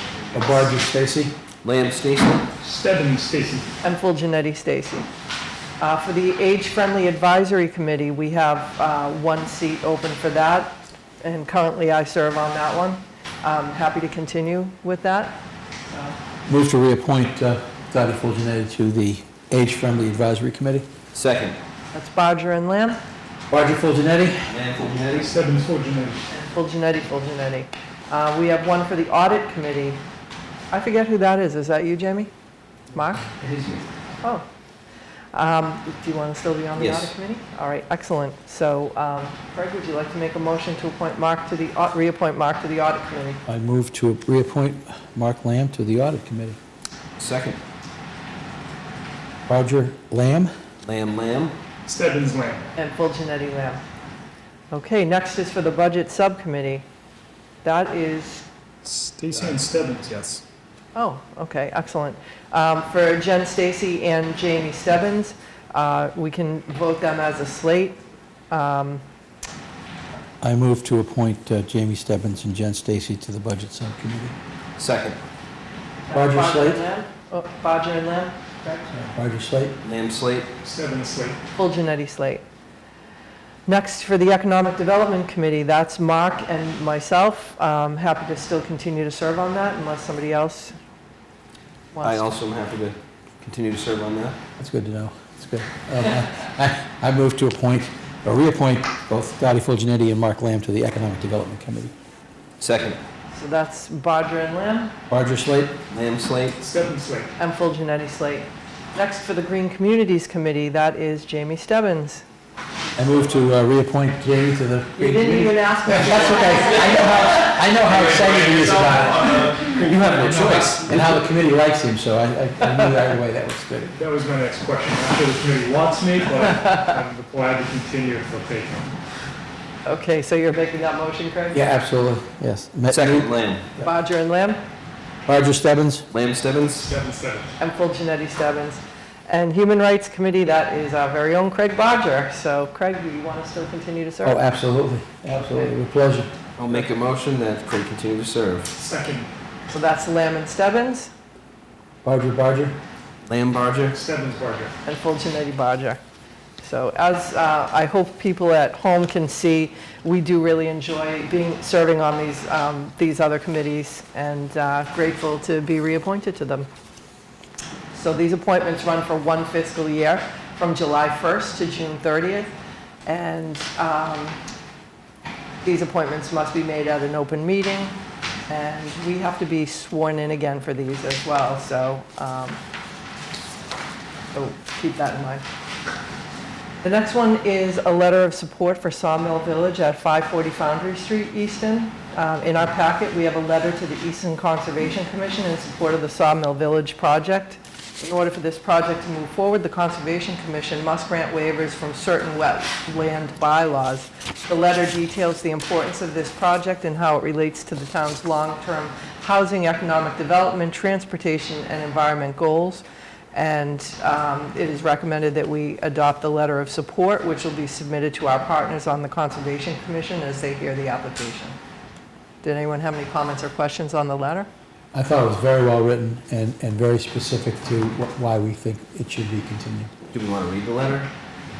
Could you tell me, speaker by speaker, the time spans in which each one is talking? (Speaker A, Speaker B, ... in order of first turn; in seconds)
Speaker A: 0.3-1.4, 16.5-20.9, 23.5-24.5, 43.5-46.6, 49.5-50.5, 70.4-74.3, 76.1-76.8, 79.0-79.7, 94.6-101.9, 105.1-105.8, 113.0-124.0, 131.5-133.9, 135.2-136.1, 144.2-146.3, 152.0-152.8, 224.9-229.9
Speaker B: 1.6-2.5, 21.1-21.6, 24.5-25.3, 33.4-33.8, 36.8-37.1, 47.2-47.6, 50.8-51.5, 74.8-75.2, 79.8-80.5, 92.0-94.4, 102.6-103.0, 105.9-106.6, 118.1-118.6, 132.9-133.7, 136.1-136.9, 146.6-148.7, 153.2-154.0, 230.1-231.1
Speaker C: 2.6-3.7, 25.1-26.2, 51.9-52.7, 58.8-60.4, 80.6-81.4, 106.6-107.3, 117.9-121.1, 124.0-128.9, 136.8-137.5, 148.7-149.3, 153.9-154.7
Speaker D: 3.8-5.1, 5.8-16.1, 21.9-23.0, 26.3-30.0, 30.7-32.3, 32.9-33.3, 35.3-43.4, 52.8-53.8, 54.7-56.8, 57.6-58.5, 60.9-69.0, 76.1-79.1, 81.5-82.4, 83.7-90.8, 91.9-92.3, 103.3-104.9, 107.4-112.2, 115.0-117.4, 129.8-131.6, 133.8-134.6, 137.6-144.4, 149.7-151.1, 154.8-156.0, 156.6-166.7, 167.9-172.5, 173.1-174.4, 175.6-182.6, 184.3-185.4, 186.8-221.6, 222.4-224.5